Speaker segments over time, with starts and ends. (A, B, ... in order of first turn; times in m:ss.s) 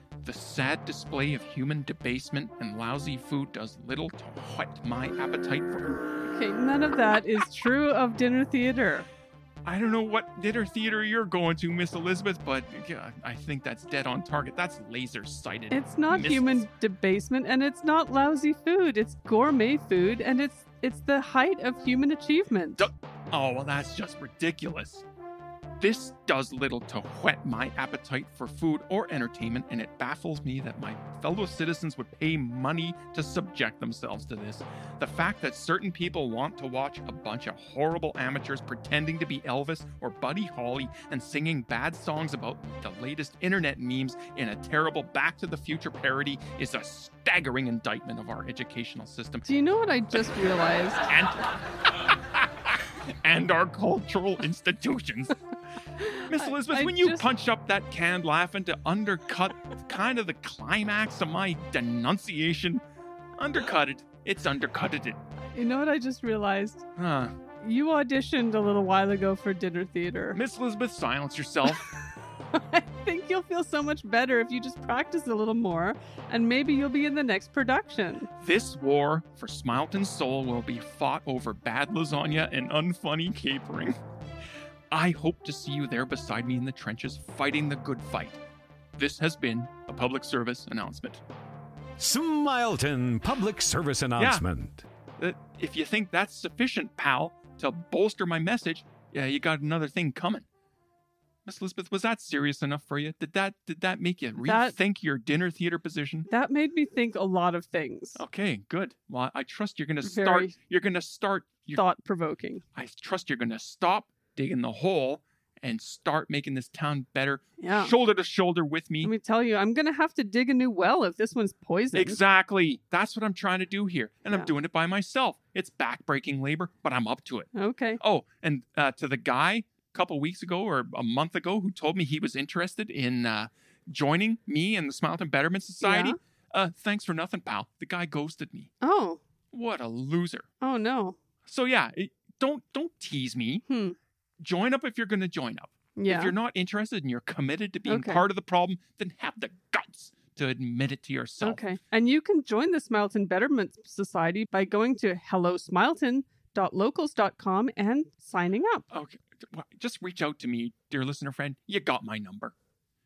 0:00.2-0:06.1 A
0:06.3-0:09.1 B
0:09.6-0:16.7 A
0:15.7-0:22.9 B
0:22.8-0:25.0 A
0:25.8-0:49.5 A
0:49.5-0:51.1 B
0:51.0-0:51.4 A
0:52.3-0:55.4 A
0:56.0-0:57.3 B
0:56.2-1:02.8 A
1:03.4-1:05.2 A
1:05.5-1:06.9 B
1:07.0-1:07.3 A
1:07.6-1:10.4 B
1:10.3-1:11.9 A
1:11.7-1:18.3 B
1:18.4-1:24.0 A
1:24.9-1:28.4 A
1:29.0-1:31.2 A
1:32.0-1:34.8 C
1:34.2-1:34.4 A
1:35.2-1:40.4 A
1:41.4-1:46.3 A
1:44.4-1:44.7 B
1:46.3-1:48.2 B
1:48.2-1:51.8 A
1:50.0-1:50.5 B
1:51.7-1:52.6 B
1:52.7-1:59.1 A
1:57.6-1:57.9 B
1:59.0-2:02.2 B
2:01.9-2:18.7 A
2:07.5-2:08.0 B
2:15.8-2:16.2 B
2:18.8-2:19.2 B
2:19.5-2:20.5 A
2:20.6-2:21.2 B
2:21.4-2:23.6 A
2:23.7-2:24.0 B
2:24.4-2:31.6 A
2:26.0-2:26.3 B
2:27.9-2:28.2 B
2:31.4-2:38.8 B
2:38.9-2:42.5 A